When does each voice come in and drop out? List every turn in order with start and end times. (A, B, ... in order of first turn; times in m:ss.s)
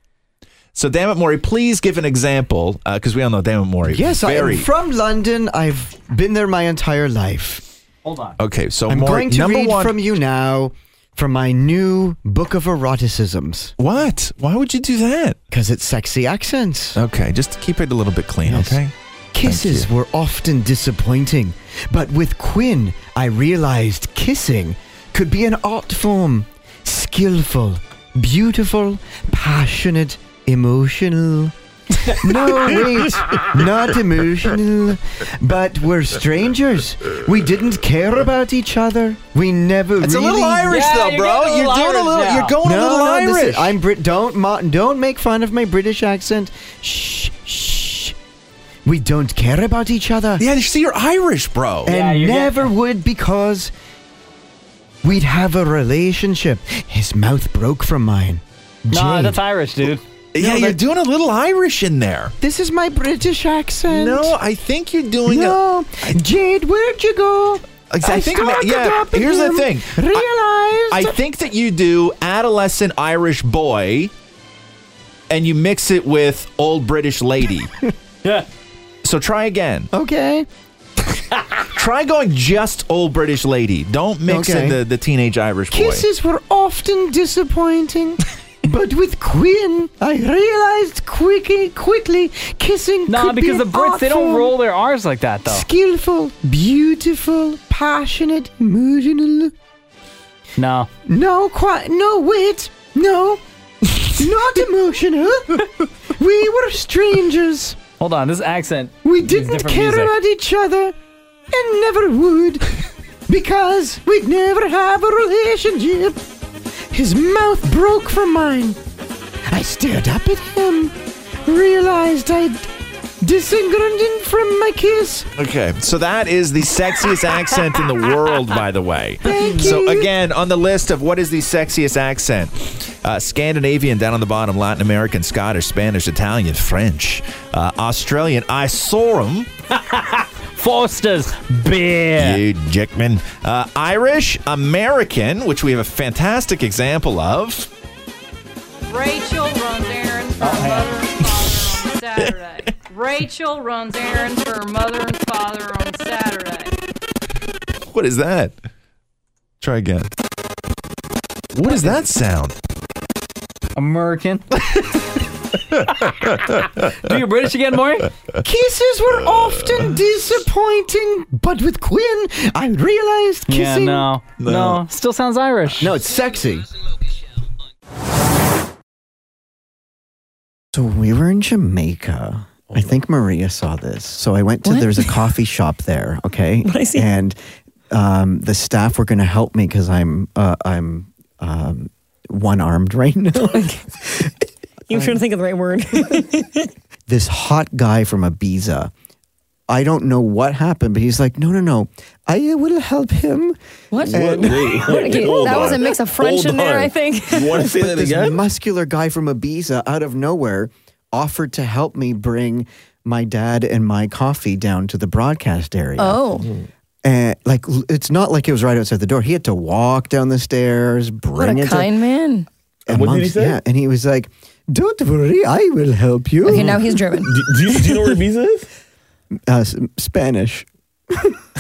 0:00.8-0:04.7 A
0:03.8-0:07.6 B
0:08.0-0:08.4 C
0:08.4-0:10.0 A
0:08.9-0:13.7 B
0:13.8-0:15.4 A
0:15.5-0:17.0 B
0:17.0-0:18.9 A
0:18.4-0:18.8 B
0:19.3-0:31.5 B
0:19.4-0:19.9 A
0:32.2-0:40.8 B
0:40.0-0:43.8 A
0:40.7-0:42.6 C
0:42.6-0:48.2 B
0:48.8-0:50.4 B
0:50.4-0:51.9 A
0:51.8-0:53.7 B
0:51.9-0:52.7 C
0:55.0-0:59.4 B
0:58.9-1:00.0 C
1:00.3-1:02.3 A
1:00.4-1:00.8 B
1:02.4-1:04.4 B
1:03.9-1:05.6 A
1:05.3-1:11.2 B
1:07.9-1:10.3 A
1:10.9-1:14.1 A
1:15.3-1:17.7 A
1:19.0-1:19.9 A
1:19.9-1:20.5 B
1:21.6-1:26.0 A
1:24.3-1:24.8 B
1:25.7-1:34.6 B
1:33.1-1:35.7 C
1:35.4-1:39.5 B
1:40.6-1:40.9 C
1:41.1-1:47.8 B
1:48.0-1:50.1 C
1:49.0-1:51.0 B
1:51.5-1:52.7 B
1:53.3-1:56.2 B
1:56.9-1:58.8 B
1:59.5-2:00.9 B
2:01.5-2:02.7 B
2:03.2-2:05.3 B
2:05.4-2:19.5 A
2:09.2-2:10.1 B
2:09.4-2:09.7 C
2:19.8-2:22.4 C
2:22.2-2:27.7 A
2:28.9-2:36.8 D
2:30.4-2:30.9 C
2:31.2-2:32.4 A
2:37.9-2:38.6 A
2:39.6-2:40.1 A
2:41.5-2:42.6 A
2:43.8-2:44.6 C
2:47.0-2:48.1 C
2:48.4-2:54.1 B
2:53.5-2:56.0 C
2:54.4-2:54.8 A
2:55.8-2:56.7 B
3:00.7-3:07.4 B
3:04.6-3:05.1 E
3:06.6-3:07.1 E
3:07.9-3:14.3 B
3:14.9-3:16.7 E
3:14.9-3:15.2 B
3:17.1-3:18.9 B
3:19.7-3:25.8 B
3:23.9-3:27.7 E
3:24.1-3:28.4 F
3:27.6-3:36.5 B
3:36.0-3:36.5 E
3:37.0-3:42.0 B
3:41.4-3:42.5 E
3:42.9-3:46.9 B
3:42.9-3:43.6 F
3:46.5-3:47.3 E
3:46.5-3:48.7 F
3:49.5-3:50.7 B